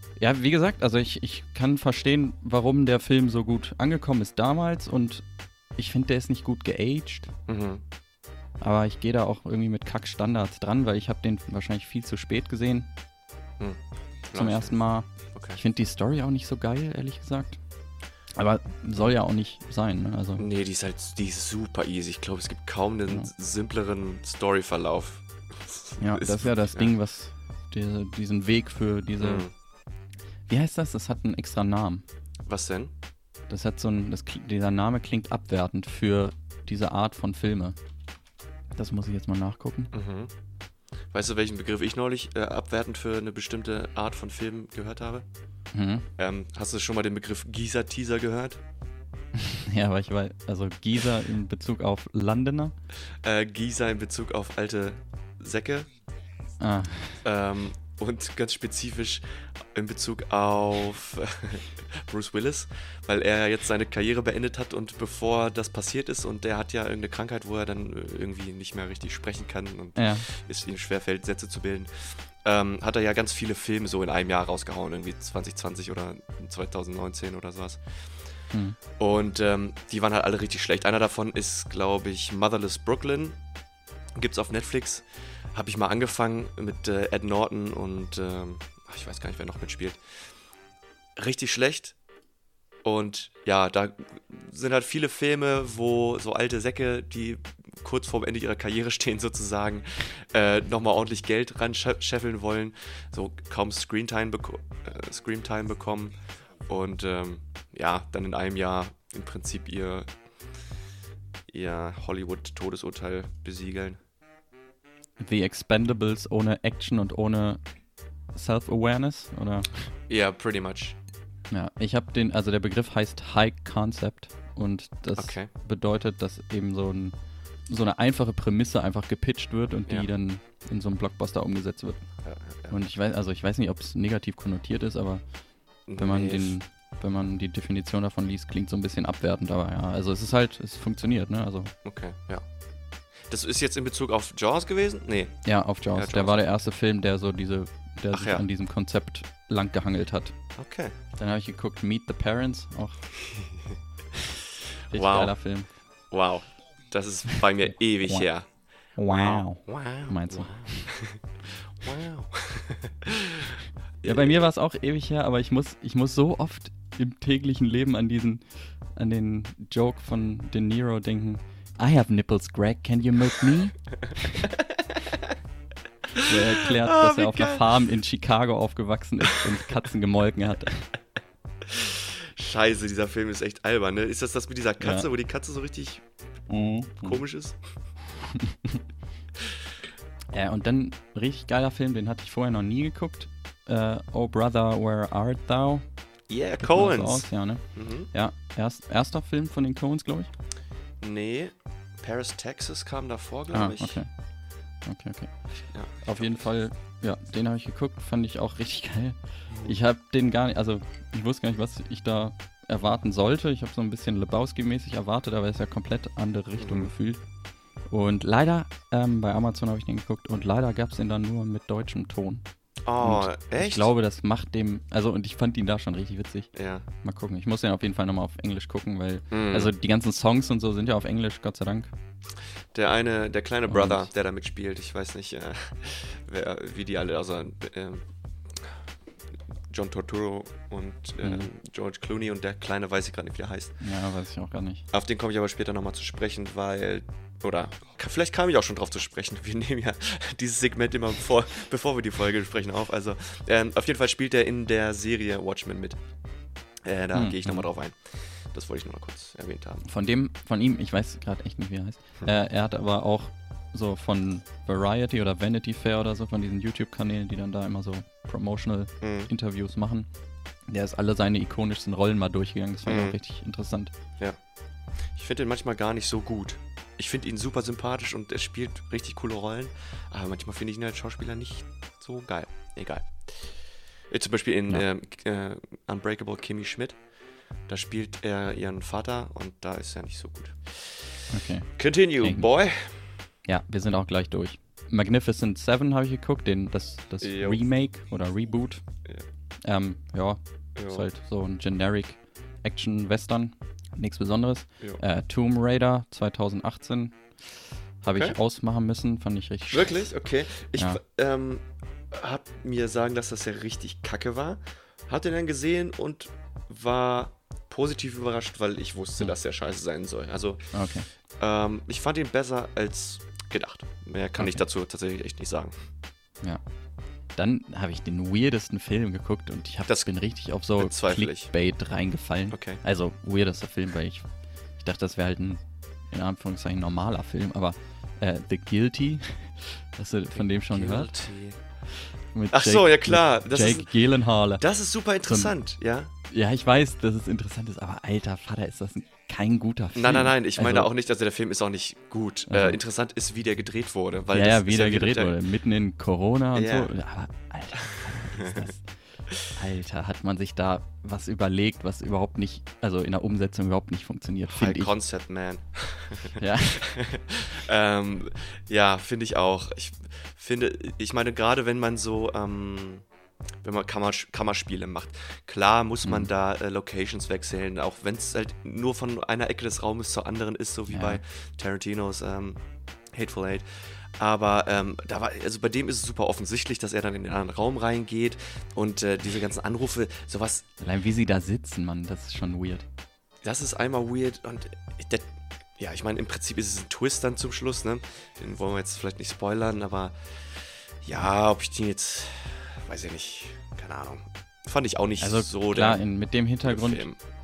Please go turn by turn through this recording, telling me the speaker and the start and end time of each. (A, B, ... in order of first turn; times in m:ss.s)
0:00.2-0:07.3 A
0:07.5-0:07.8 B
0:08.6-0:12.9 A
0:13.6-0:14.8 B
0:14.4-0:17.6 A
0:15.3-0:15.6 B
0:18.4-0:20.5 A
0:20.4-0:26.9 B
0:26.0-0:29.5 A
0:29.2-0:29.5 B
0:30.5-0:32.0 A
0:32.5-0:32.9 B
0:33.5-0:37.8 A
0:38.8-0:39.9 A
0:39.9-0:40.3 B
0:41.1-0:45.3 B
0:45.7-0:46.1 A
0:46.2-0:48.6 B
0:49.4-0:52.8 A
0:53.2-0:55.9 B
0:56.6-0:57.2 A
0:57.2-1:18.2 B
1:10.0-1:10.3 A
1:18.5-1:18.8 A
1:19.0-1:23.4 B
1:24.2-1:30.0 B
1:31.2-1:32.0 B
1:32.8-1:50.1 B
1:51.5-1:54.0 B
1:55.2-1:57.6 A
1:58.3-1:59.9 A
2:00.1-2:01.0 B
2:01.5-2:12.1 A
2:05.2-2:05.5 B
2:12.2-2:12.8 B
2:12.7-2:21.7 A
2:15.9-2:16.6 B
2:21.8-2:22.5 B
2:23.2-2:26.5 B
2:25.4-2:30.4 A
2:28.1-2:28.4 B
2:30.6-2:31.0 B
2:31.2-2:33.1 A
2:33.2-2:33.8 B
2:34.9-2:35.7 A
2:34.9-2:38.5 B
2:37.6-2:38.3 A
2:38.9-2:40.9 A
2:39.1-2:41.2 B
2:41.8-2:44.5 B
2:44.0-2:54.5 A
2:53.9-2:55.3 B
2:56.2-2:57.8 B
2:56.2-3:00.9 A
2:59.4-2:59.8 B
3:01.6-3:07.6 B
3:04.8-3:05.1 A
3:06.5-3:07.2 A
3:08.4-3:08.8 A
3:10.3-3:15.9 A
3:16.3-3:18.1 B
3:16.6-3:20.3 A
3:21.0-3:24.0 B
3:23.5-3:24.3 A
3:24.8-3:37.2 A
3:25.7-3:26.5 B
3:29.5-3:29.8 B
3:36.6-3:36.9 B
3:37.8-3:42.5 A
3:42.8-3:43.9 B
3:43.0-3:46.5 A
3:46.5-3:46.9 B
3:47.0-3:51.9 A
3:49.3-3:49.7 B
3:52.7-3:58.8 B
3:53.7-3:54.1 A
3:59.7-4:03.8 B
4:01.2-4:01.5 A
4:03.8-4:04.8 A
4:04.9-4:16.0 B
4:16.8-4:19.9 B
4:17.1-4:17.7 A
4:19.8-4:30.1 A
4:29.0-4:29.3 B
4:30.7-4:33.9 A
4:32.9-4:33.2 B
4:35.1-4:43.6 B
4:44.1-4:47.0 B
4:47.7-4:51.2 B
4:51.3-4:52.5 A
4:51.8-4:53.2 B
4:53.4-4:58.9 A
4:57.2-4:57.6 B
4:59.6-5:10.1 A
5:00.8-5:01.1 B
5:09.7-5:20.8 B
5:10.8-5:11.0 A
5:20.7-5:21.1 A
5:21.4-5:25.7 B
5:24.4-5:24.6 A
5:27.3-5:41.2 A
5:29.9-5:30.2 B
5:30.8-5:31.5 B
5:32.5-5:32.8 B
5:40.3-5:41.6 B
5:42.3-5:44.6 A
5:42.5-5:46.1 B
5:45.2-5:45.6 A
5:46.3-5:50.9 A
5:49.9-5:55.4 B
5:52.5-5:52.8 A
5:54.3-6:05.0 A
5:56.5-5:56.9 B
5:58.4-5:58.7 B
6:04.5-6:13.1 B
6:06.4-6:06.9 A
6:13.6-6:23.7 B
6:16.0-6:16.3 A
6:20.9-6:21.2 A
6:24.2-6:30.7 B
6:30.8-6:32.8 A
6:33.4-6:46.1 B
6:45.2-6:47.1 A
6:46.6-6:47.2 B